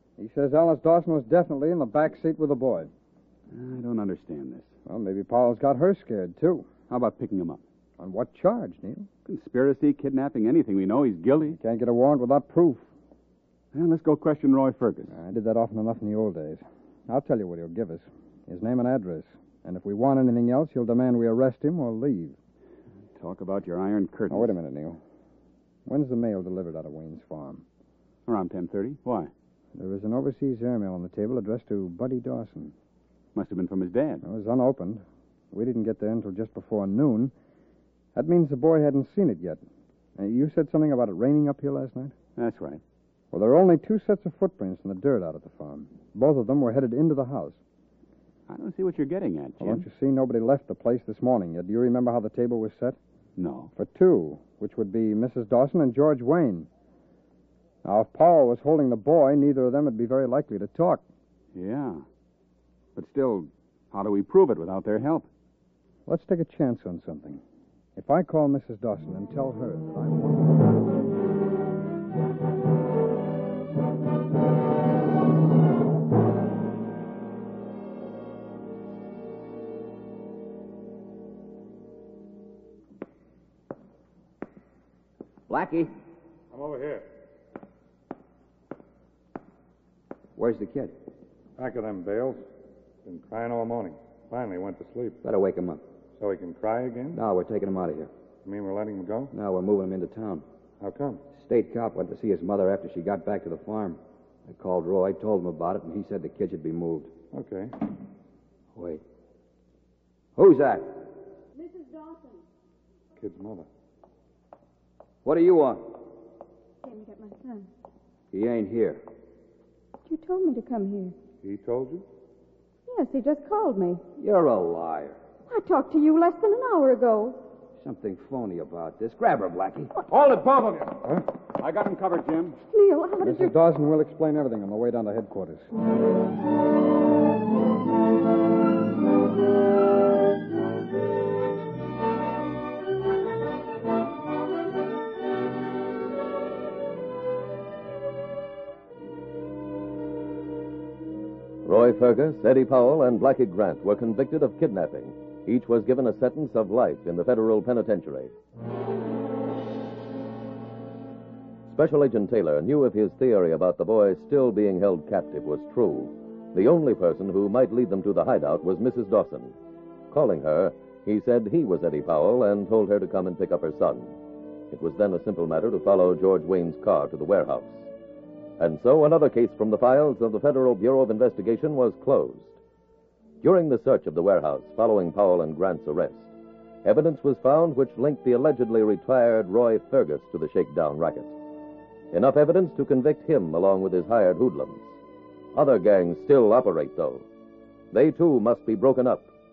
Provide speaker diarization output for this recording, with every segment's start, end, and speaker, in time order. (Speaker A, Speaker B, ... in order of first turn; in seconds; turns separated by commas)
Speaker A: 0.2-2.9, Speaker B: 3.5-4.7, Speaker A: 4.8-6.7, Speaker B: 6.9-7.6, Speaker A: 8.0-9.1, Speaker B: 9.2-11.6, Speaker A: 11.5-12.8, Speaker B: 13.7-15.1, Speaker A: 15.1-22.4, Speaker B: 23.1-24.6, Speaker A: 24.3-25.0, Speaker A: 25.9-27.6, Speaker B: 28.3-29.3, Speaker A: 29.7-32.7, Speaker B: 33.3-34.2, Speaker A: 34.2-37.3, Speaker A: 38.1-39.6, Speaker A: 40.1-42.1, Speaker B: 42.4-42.8, Speaker A: 43.3-47.6, Speaker B: 48.5-49.9, Speaker A: 49.6-53.0, Speaker B: 53.4-53.7, Speaker A: 53.8-56.7, Speaker A: 57.8-61.0, Speaker B: 61.5-62.0, Speaker B: 63.0-65.3, Speaker A: 66.0-67.4, Speaker A: 68.0-70.8, Speaker C: 85.5-85.9, Speaker D: 86.5-87.1, Speaker C: 90.3-90.9, Speaker D: 91.6-92.4, Speaker D: 93.0-95.2, Speaker C: 95.2-95.8, Speaker D: 96.2-97.2, Speaker C: 97.1-98.1, Speaker D: 98.4-99.3, Speaker C: 99.3-100.4, Speaker D: 100.8-101.2, Speaker C: 101.3-107.1, Speaker D: 107.3-107.7, Speaker C: 108.7-109.0, Speaker C: 110.3-111.0, Speaker E: 111.5-112.4, Speaker D: 113.2-113.7, Speaker C: 115.2-115.9, Speaker E: 116.8-117.7, Speaker C: 118.3-119.0, Speaker E: 120.0-121.1, Speaker D: 121.4-122.0, Speaker E: 122.9-124.0, Speaker C: 124.2-125.2, Speaker E: 125.5-127.4, Speaker C: 127.8-129.9, Speaker B: 130.1-132.6, Speaker E: 132.6-133.6, Speaker A: 133.2-135.7, Speaker F: 151.6-158.3, Speaker F: 161.7-169.5, Speaker F: 170.1-174.1, Speaker F: 174.7-177.9, Speaker F: 178.6-182.6, Speaker F: 183.4-186.3, Speaker F: 186.8-191.3, Speaker F: 192.1-194.9, Speaker F: 195.5-197.2, Speaker F: 197.9-199.3